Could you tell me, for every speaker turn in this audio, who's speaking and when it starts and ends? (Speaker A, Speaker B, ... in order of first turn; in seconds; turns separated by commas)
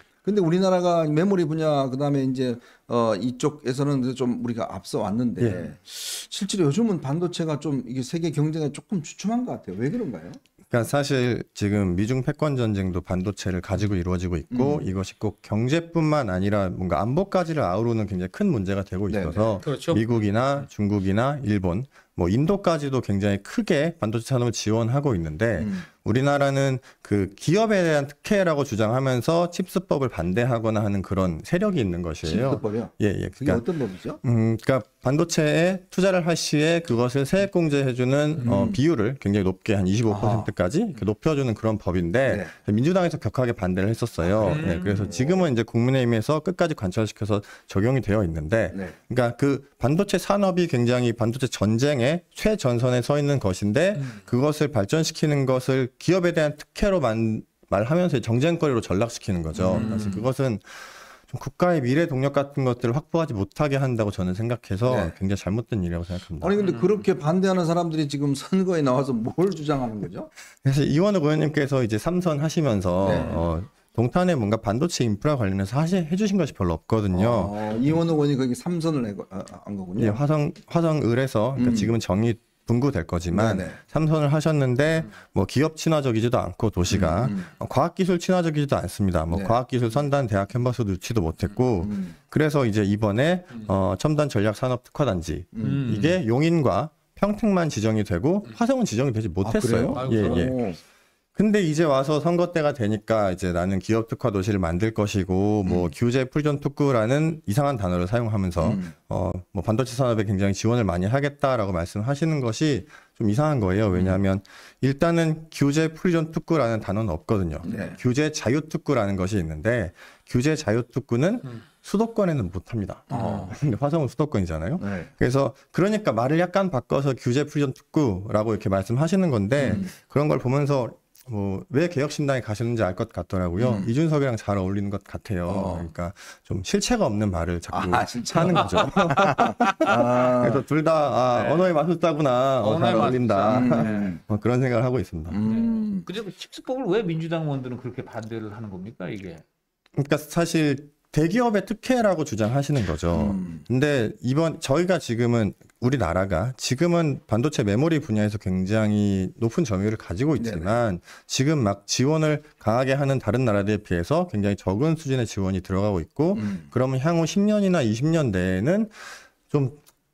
Speaker A: 0.2-10.4, Speaker B: 10.7-33.6, Speaker A: 14.5-14.9, Speaker A: 19.1-19.6, Speaker C: 19.6-20.0, Speaker A: 25.6-25.9, Speaker A: 32.2-34.2, Speaker B: 34.2-66.6, Speaker A: 38.4-38.8, Speaker A: 40.1-40.5, Speaker A: 42.2-42.5, Speaker A: 44.2-45.5, Speaker C: 44.4-45.1, Speaker A: 48.7-49.0, Speaker C: 54.0-54.2, Speaker A: 59.5-60.2, Speaker C: 59.7-60.3, Speaker A: 64.8-65.2, Speaker A: 66.4-70.3, Speaker C: 66.6-67.0, Speaker B: 70.6-77.6, Speaker A: 73.0-73.4, Speaker C: 73.0-73.4, Speaker A: 77.1-80.2, Speaker B: 80.0-100.6, Speaker A: 81.5-81.9, Speaker A: 83.3-83.8, Speaker A: 86.9-87.5, Speaker A: 89.3-89.6, Speaker A: 91.8-92.2, Speaker A: 95.5-96.0, Speaker C: 95.6-96.2, Speaker A: 99.4-100.8, Speaker C: 99.9-100.5, Speaker B: 101.3-145.4, Speaker A: 105.6-105.9, Speaker A: 108.6-108.9, Speaker A: 113.9-114.2, Speaker A: 117.6-118.0, Speaker C: 123.1-123.5, Speaker A: 123.1-123.6, Speaker A: 124.8-125.1, Speaker A: 129.6-129.9, Speaker A: 133.6-133.9, Speaker A: 135.4-135.9, Speaker A: 137.7-140.6, Speaker C: 139.3-139.9, Speaker C: 141.3-141.7, Speaker C: 142.6-144.2, Speaker A: 143.4-144.2, Speaker A: 145.3-146.1, Speaker C: 145.4-149.4, Speaker B: 149.9-169.8, Speaker A: 153.1-153.7, Speaker A: 160.4-160.8, Speaker A: 166.3-166.7